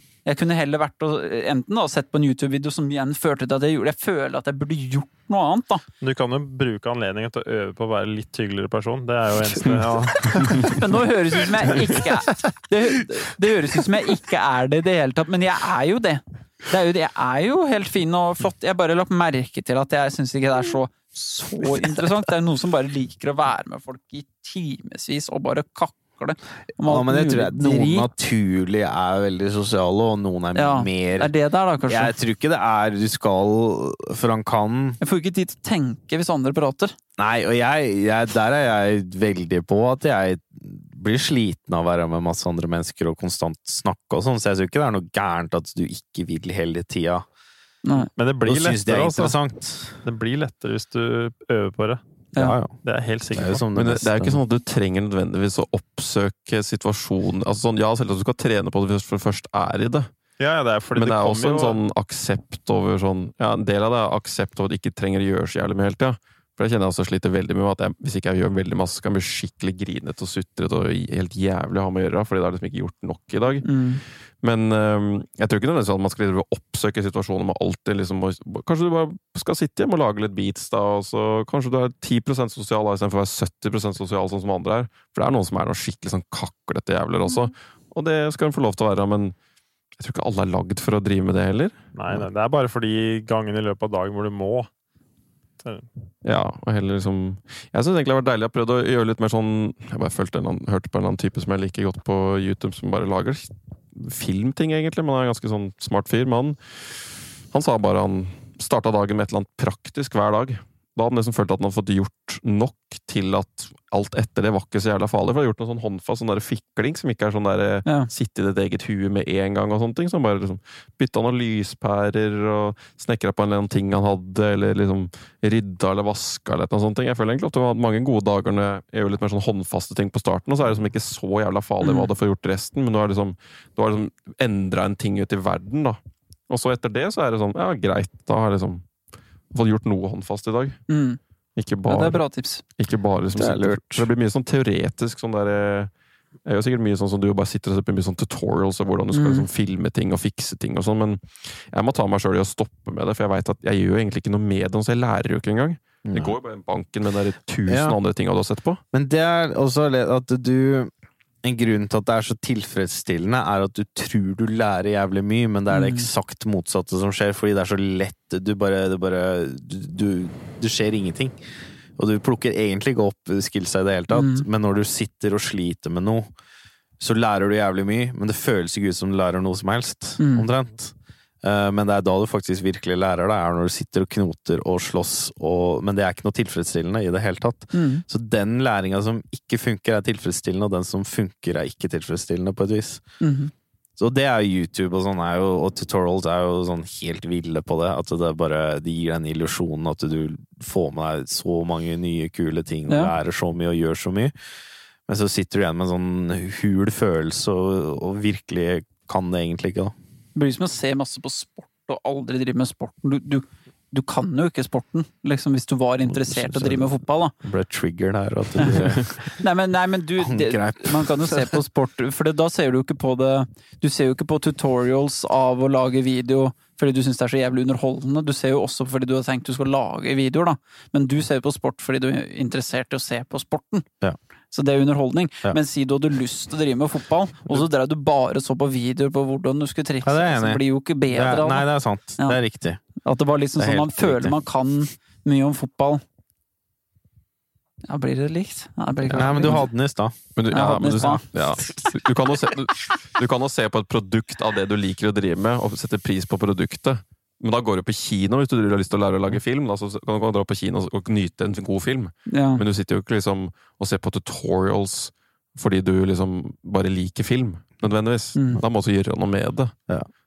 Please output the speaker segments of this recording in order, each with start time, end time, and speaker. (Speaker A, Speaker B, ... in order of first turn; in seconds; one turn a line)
Speaker A: 0.2-5.8
Speaker B: 6.0-10.8
Speaker C: 9.6-10.7
Speaker A: 10.2-28.1
Speaker D: 26.8-31.3
Speaker A: 30.5-32.1
Speaker D: 31.9-35.0
Speaker A: 35.0-37.0
Speaker D: 37.2-47.2
Speaker A: 47.8-48.1
Speaker B: 48.1-49.4
Speaker D: 48.4-50.0
Speaker B: 50.0-52.0
Speaker A: 52.3-52.6
Speaker D: 52.4-52.8
Speaker B: 52.8-53.6
Speaker D: 53.3-54.4
Speaker C: 53.7-60.1
Speaker B: 60.4-61.8
Speaker C: 60.9-73.7
Speaker A: 73.6-74.0
Speaker C: 74.4-89.3
Speaker C: 90.0-92.3
Speaker B: 91.9-94.7
Speaker B: 95.6-95.9
Speaker C: 96.2-106.6
Speaker C: 107.5-136.0
Speaker A: 131.8-132.1
Speaker C: 136.5-138.9
Speaker C: 139.5-140.8
Speaker A: 140.9-141.2
Speaker C: 141.6-145.9
Speaker A: 141.9-142.6
Speaker D: 143.3-144.1
Speaker C: 146.4-158.8
Speaker A: 149.1-149.5
Speaker D: 156.0-156.3
Speaker D: 157.7-158.0
Speaker D: 158.9-160.9
Speaker D: 161.4-171.3
Speaker A: 165.7-166.1
Speaker D: 172.0-176.3
Speaker A: 174.1-174.4
Speaker D: 177.0-193.0
Speaker A: 180.2-180.5
Speaker A: 187.7-188.0
Speaker A: 193.2-193.5
Speaker D: 194.0-204.3
Speaker A: 202.9-203.1
Speaker D: 205.1-209.9
Speaker A: 210.3-217.3
Speaker D: 216.1-219.2
Speaker A: 219.3-233.8
Speaker D: 220.2-221.4
Speaker A: 234.5-242.4
Speaker D: 240.0-242.8
Speaker A: 243.0-246.0
Speaker D: 243.6-244.3
Speaker A: 247.8-249.7
Speaker C: 249.1-249.7
Speaker D: 249.1-250.2
Speaker C: 250.3-269.7
Speaker A: 250.5-251.2
Speaker A: 262.3-262.6
Speaker A: 268.4-268.6